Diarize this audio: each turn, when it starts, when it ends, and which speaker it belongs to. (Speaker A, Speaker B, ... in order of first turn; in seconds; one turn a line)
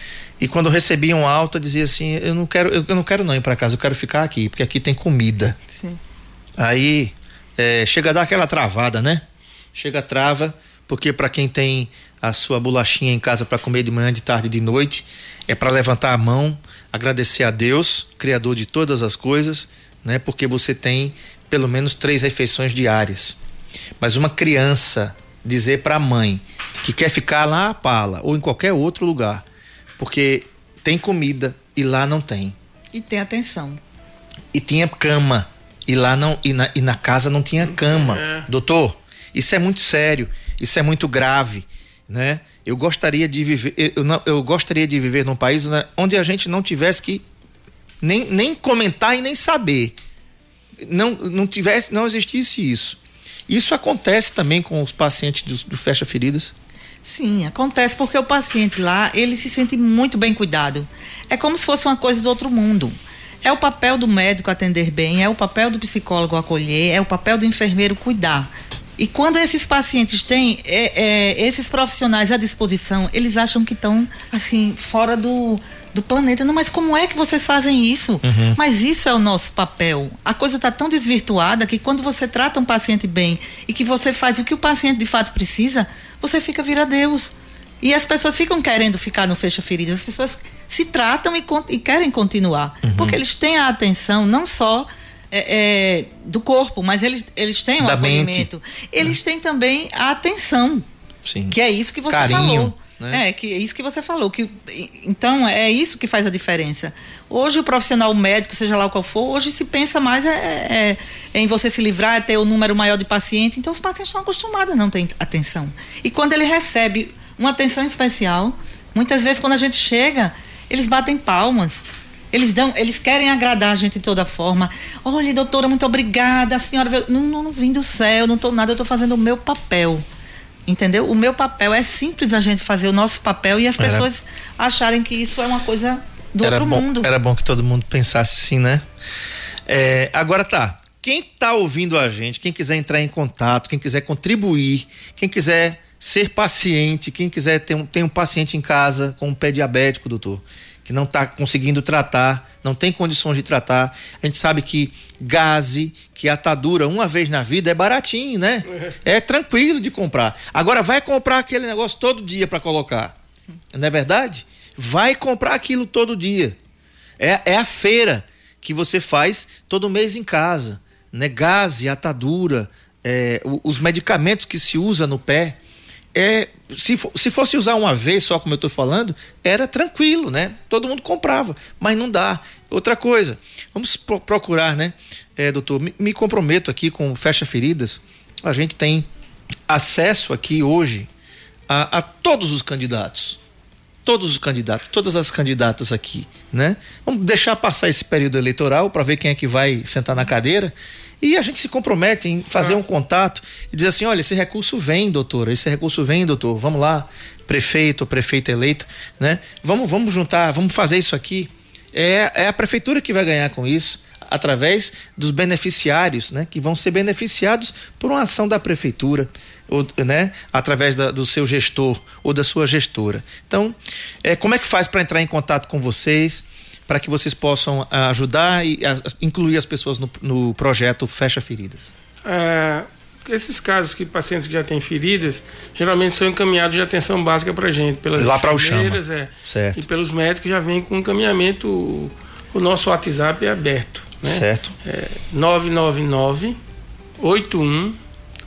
Speaker A: 0.4-5.6
Speaker B: 5.7-6.0
Speaker A: 6.6-9.2
Speaker A: 9.8-23.4
Speaker A: 24.0-29.4
Speaker A: 30.0-32.6
Speaker B: 32.9-33.8
Speaker A: 34.5-47.2
Speaker C: 37.6-38.5
Speaker A: 48.0-50.0
Speaker A: 50.8-56.5
Speaker B: 57.0-100.9
Speaker A: 78.2-78.6
Speaker A: 92.8-93.2
Speaker A: 97.8-98.5
Speaker A: 101.2-101.6
Speaker B: 101.5-130.0
Speaker A: 102.1-103.2
Speaker B: 130.7-137.1
Speaker A: 133.8-134.1
Speaker A: 136.4-138.8
Speaker A: 139.7-163.1
Speaker A: 163.7-166.6
Speaker A: 167.2-175.6
Speaker A: 176.1-189.1
Speaker A: 189.7-191.1
Speaker A: 191.7-193.4
Speaker A: 194.1-231.9
Speaker C: 232.2-246.6
Speaker A: 238.2-239.8
Speaker A: 244.2-244.8
Speaker C: 247.2-248.0